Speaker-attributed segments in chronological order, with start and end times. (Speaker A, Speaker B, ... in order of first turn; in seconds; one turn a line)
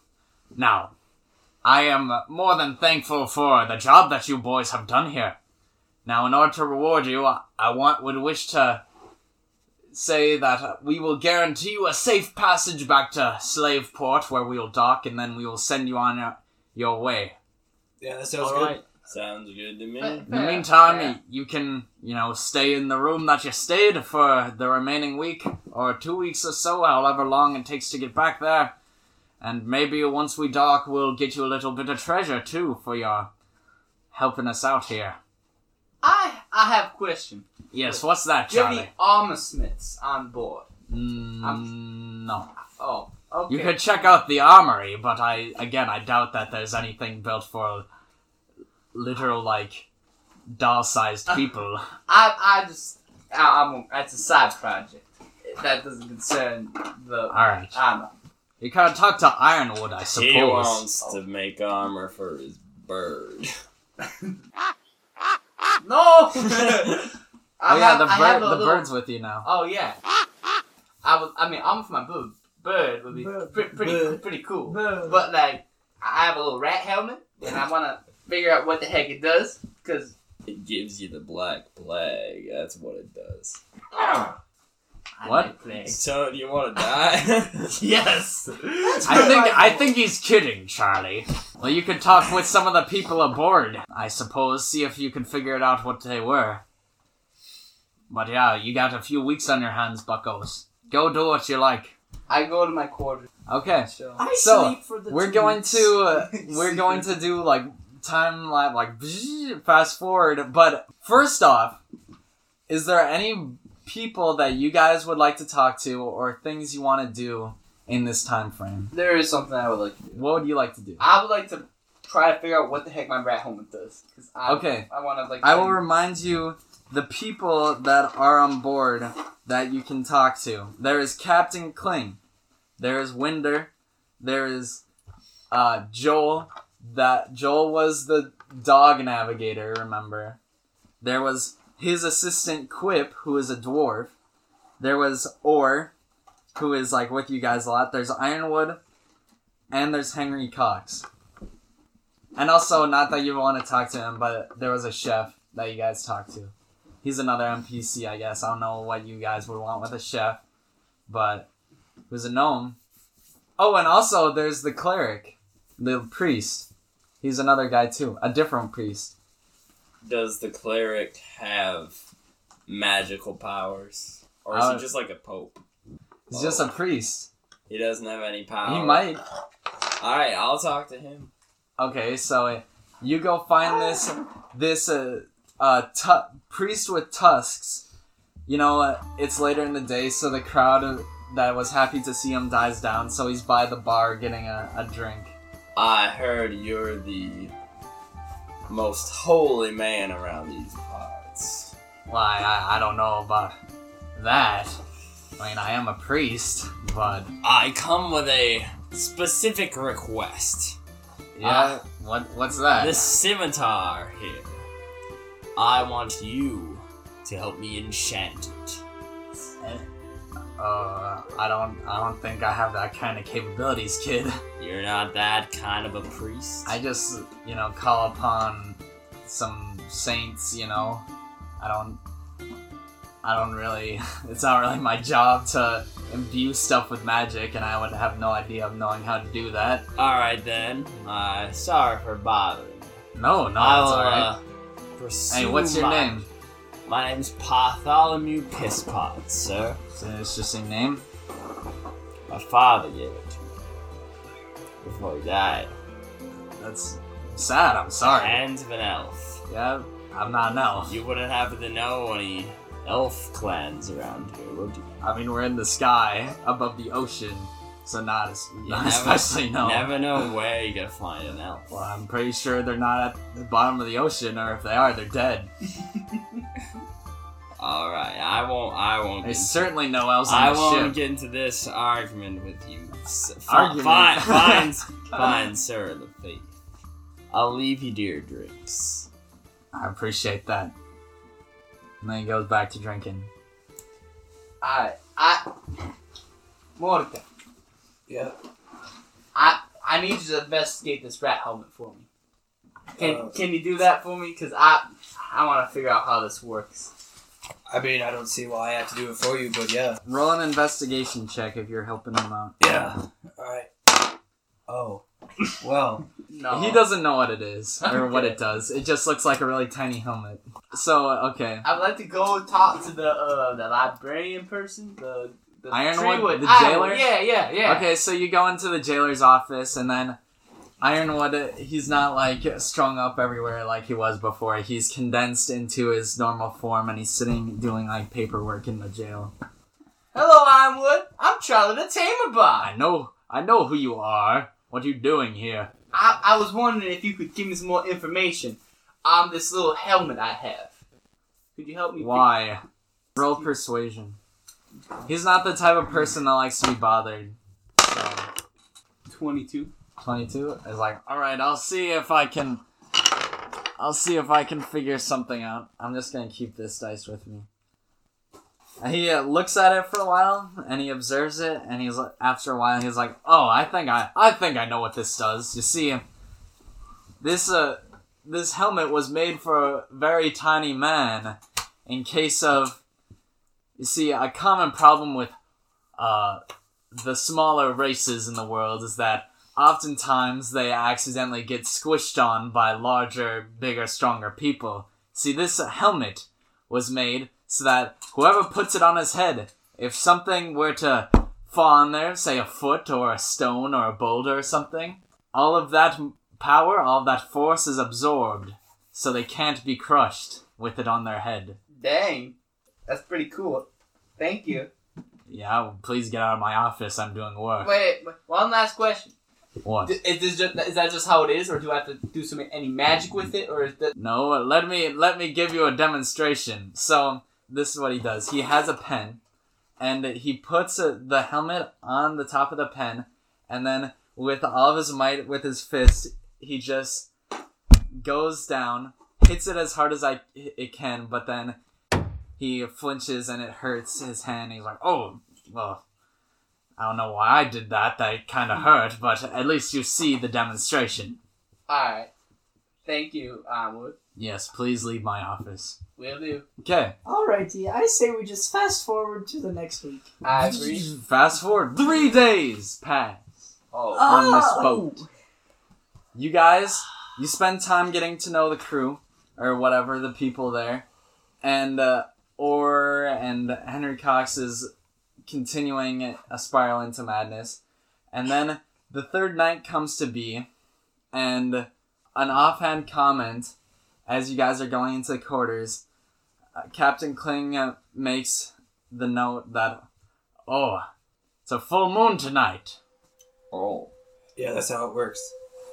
Speaker A: 0.6-0.9
Speaker A: 1.6-5.4
Speaker A: 6.0-8.8
Speaker A: 9.9-17.4
Speaker B: 18.0-18.8
Speaker C: 18.4-18.8
Speaker D: 19.1-20.3
Speaker C: 20.0-21.2
Speaker A: 20.3-28.8
Speaker A: 29.4-33.3
Speaker A: 34.1-35.2
Speaker C: 36.0-40.7
Speaker A: 37.7-38.9
Speaker A: 40.9-42.5
Speaker C: 41.4-41.7
Speaker C: 42.8-44.1
Speaker A: 43.5-47.9
Speaker A: 48.9-49.9
Speaker A: 50.5-51.9
Speaker C: 52.1-58.1
Speaker A: 57.3-57.8
Speaker A: 58.6-60.9
Speaker D: 60.0-63.5
Speaker C: 64.0-64.3
Speaker C: 65.8-67.1
Speaker C: 67.6-68.9
Speaker A: 67.7-69.5
Speaker C: 69.4-70.0
Speaker C: 71.0-80.2
Speaker E: 73.1-75.2
Speaker D: 80.5-83.6
Speaker C: 85.2-86.0
Speaker A: 85.2-85.5
Speaker D: 85.8-87.8
Speaker C: 87.8-89.8
Speaker E: 88.8-89.8
Speaker A: 89.0-96.6
Speaker A: 98.1-102.0
Speaker C: 102.3-103.3
Speaker A: 103.5-111.8
Speaker C: 103.9-104.2
Speaker E: 104.2-106.0
Speaker C: 106.1-107.1
Speaker A: 112.7-118.9
Speaker C: 118.9-120.2
Speaker A: 120.1-121.0
Speaker C: 121.0-125.8
Speaker A: 124.5-124.9
Speaker A: 125.4-132.2
Speaker A: 132.8-134.8
Speaker A: 135.5-140.4
Speaker A: 141.0-144.1
Speaker A: 144.8-145.9
Speaker A: 146.6-148.8
Speaker A: 149.7-151.1
Speaker A: 152.3-160.4
Speaker A: 161.1-161.5
Speaker A: 162.1-162.8
Speaker A: 163.6-166.7
Speaker A: 167.2-169.1
Speaker D: 170.0-172.0
Speaker D: 172.7-175.6
Speaker A: 174.5-174.9
Speaker D: 176.3-176.7
Speaker A: 176.3-177.3
Speaker D: 177.7-179.1
Speaker A: 178.7-179.2
Speaker D: 180.0-181.3
Speaker A: 181.8-187.8
Speaker A: 188.5-195.3
Speaker D: 195.8-197.5
Speaker D: 198.7-201.7
Speaker A: 202.1-203.6
Speaker A: 204.2-204.8
Speaker A: 205.4-207.3
Speaker D: 207.4-210.8
Speaker A: 211.4-213.1
Speaker D: 211.4-211.8
Speaker D: 212.8-214.6
Speaker D: 215.6-218.8
Speaker A: 220.6-224.4
Speaker D: 224.6-226.8
Speaker A: 226.7-231.1
Speaker A: 231.6-232.0
Speaker A: 233.2-239.9
Speaker D: 240.0-243.0
Speaker A: 243.1-244.3
Speaker D: 243.6-244.4
Speaker D: 245.0-246.3
Speaker A: 245.3-246.3
Speaker D: 246.9-249.8
Speaker A: 250.0-251.0
Speaker D: 252.3-253.7
Speaker D: 254.8-255.7
Speaker A: 256.6-258.4
Speaker D: 258.0-259.4
Speaker A: 259.5-261.0
Speaker D: 260.9-264.9
Speaker A: 265.0-270.0
Speaker D: 268.7-271.7
Speaker A: 271.7-275.5
Speaker D: 277.6-279.6
Speaker A: 279.2-281.0
Speaker D: 280.3-286.5
Speaker A: 283.5-284.7
Speaker D: 287.3-289.1
Speaker A: 289.7-290.7
Speaker A: 292.0-293.3
Speaker C: 294.6-295.5
Speaker C: 296.8-297.2
Speaker B: 298.1-298.4
Speaker C: 299.4-302.1
Speaker C: 302.9-306.9
Speaker B: 303.0-303.3
Speaker B: 307.7-310.0
Speaker A: 310.1-312.6
Speaker B: 312.6-313.7
Speaker B: 314.7-315.0
Speaker B: 315.6-316.1
Speaker C: 316.3-316.8
Speaker A: 316.5-321.7
Speaker C: 317.8-318.4
Speaker C: 321.6-327.9
Speaker A: 325.7-327.1
Speaker A: 327.6-330.2
Speaker A: 330.8-339.3
Speaker C: 340.1-342.7
Speaker A: 342.6-345.7
Speaker C: 345.9-350.8
Speaker C: 351.6-352.3
Speaker A: 352.0-352.6
Speaker A: 353.2-354.2
Speaker A: 355.1-358.3
Speaker C: 359.1-359.7
Speaker A: 360.0-362.6
Speaker A: 363.8-367.5
Speaker A: 368.8-376.0
Speaker A: 377.2-382.8
Speaker A: 383.8-385.4
Speaker A: 386.0-386.4
Speaker A: 386.9-411.6
Speaker C: 411.7-412.4
Speaker C: 412.9-413.7
Speaker C: 414.2-414.7
Speaker A: 415.3-417.7
Speaker C: 417.6-419.1
Speaker A: 419.6-420.0
Speaker C: 419.9-423.9
Speaker A: 424.0-429.2
Speaker A: 429.8-437.1
Speaker A: 437.9-441.6
Speaker A: 442.4-445.8
Speaker A: 446.8-451.2
Speaker C: 451.7-452.1
Speaker C: 452.9-454.0
Speaker A: 454.2-455.8
Speaker C: 456.0-456.5
Speaker A: 456.6-457.0
Speaker E: 457.1-460.1
Speaker C: 460.2-460.9
Speaker A: 460.6-463.2
Speaker C: 463.7-464.7
Speaker E: 463.9-465.1
Speaker A: 464.1-465.0
Speaker A: 466.1-470.9
Speaker A: 471.4-474.7
Speaker A: 475.3-477.6
Speaker A: 478.1-480.5
Speaker A: 481.1-483.5
Speaker A: 484.1-485.8
Speaker A: 486.6-489.9
Speaker A: 490.5-490.9
Speaker A: 491.4-492.8
Speaker D: 493.5-493.9
Speaker B: 494.4-495.3